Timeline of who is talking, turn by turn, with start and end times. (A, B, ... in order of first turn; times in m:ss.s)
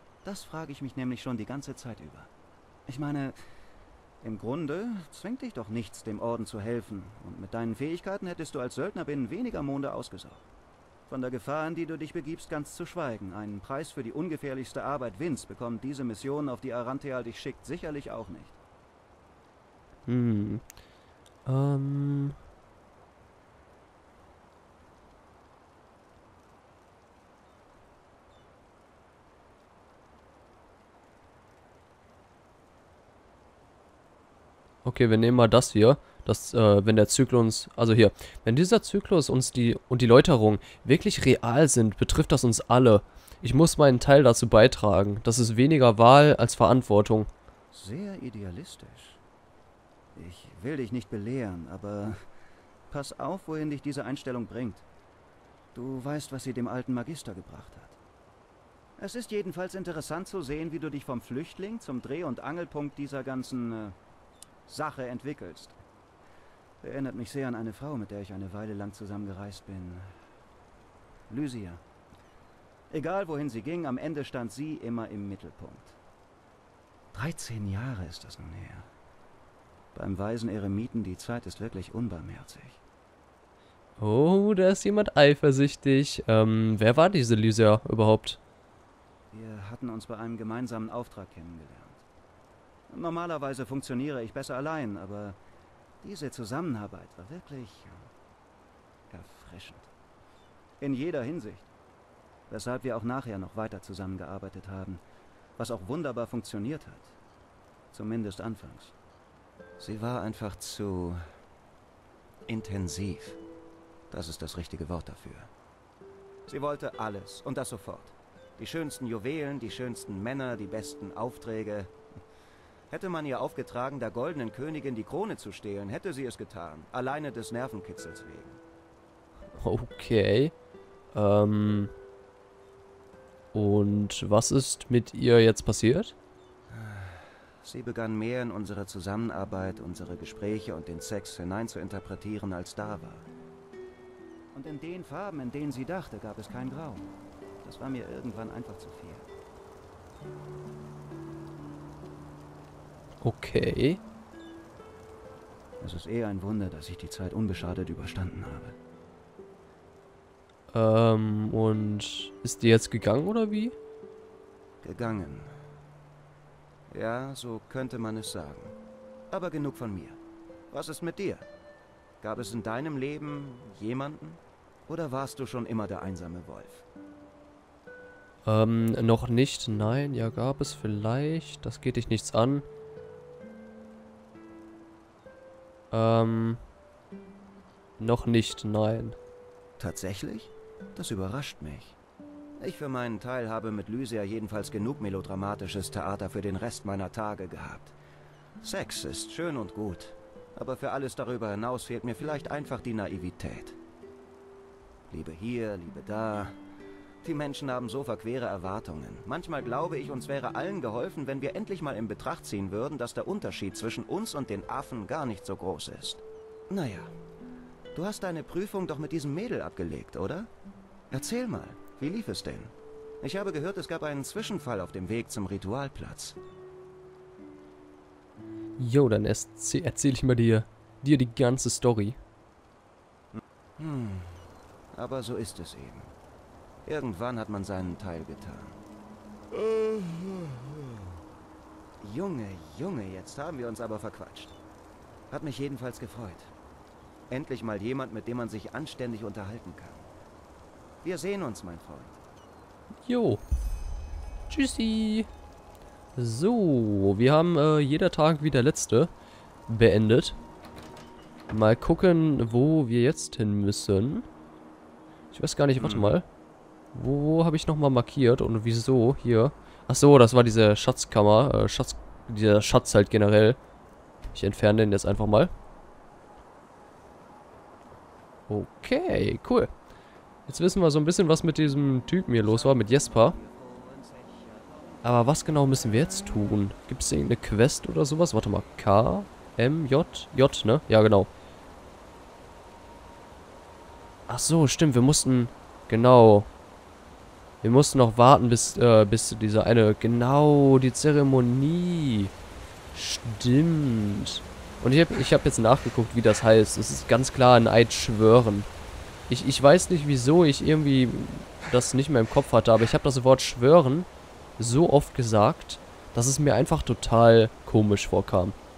0:00.2-0:02.3 A
0:02.9-0:03.4 A
0:04.2-0:10.5 A
0:11.1-0:18.6 A
0:20.1-0:20.6 B
0:21.5-0:22.4 B
0:34.8-0:47.3 B
0:47.7-0:49.2 A
0:50.1-0:52.2 A
0:52.9-0:54.8 A
0:55.7-0:58.0 A
0:59.0-1:04.0 A
1:04.7-1:05.8 A
1:06.8-1:10.1 A
1:11.3-1:11.8 A
1:12.9-1:16.0 A
1:17.1-1:18.9 A
1:19.9-1:22.8 A
1:24.0-1:28.4 B
1:29.3-1:32.0 A
1:32.9-1:35.4 A
1:36.0-1:38.1 A
1:39.1-1:39.9 A
1:40.8-1:41.7 A
1:42.5-1:45.0 A
1:45.6-1:47.2 A
1:47.9-1:49.0 A
1:49.8-1:51.2 A
1:52.5-1:53.4 A
1:54.1-1:55.5 A
1:56.5-2:01.9 A
2:02.9-2:08.6 A
2:09.6-2:10.5 B
2:11.1-2:11.9 B
2:13.5-2:16.2 B
2:16.7-2:23.3 A
2:24.5-2:27.1 A
2:27.6-2:29.3 A
2:33.2-2:34.0 B
2:35.8-2:38.8 A
2:40.7-2:43.8 B
2:44.8-2:45.5 A
2:46.9-2:48.8 A
2:49.3-2:50.2 A
2:50.7-2:51.5 A
2:52.2-2:56.8 A
2:58.4-3:02.6 B
3:05.9-3:06.6 B
3:08.0-3:09.2 B
3:09.8-3:12.0 A
3:12.6-3:18.0 A
3:18.6-3:23.8 A
3:25.1-3:26.6 A
3:27.2-3:37.2 A
3:37.9-3:40.5 A
3:41.1-3:46.4 A
3:48.8-3:52.2 B
3:53.3-3:56.1 A
3:56.8-3:58.8 A
3:59.5-4:01.2 A
4:02.0-4:04.6 A
4:05.3-4:06.5 A
4:07.3-4:10.1 A
4:11.0-4:12.2 A
4:13.1-4:13.4 B
4:14.5-4:15.3 B
4:16.2-4:19.1 B
4:19.7-4:20.4 B
4:21.5-4:24.3 B
4:25.3-4:26.2 B
4:25.8-4:26.2 A
4:26.9-4:33.6 B
4:34.3-4:35.5 B
4:38.5-4:39.7 B
4:40.5-4:43.4 B
4:42.4-4:44.9 A
4:45.0-4:51.3 B
4:54.3-4:56.5 B
4:57.6-5:02.3 B
5:02.9-5:08.7 B
5:09.3-5:14.1 B
5:14.6-5:18.6 B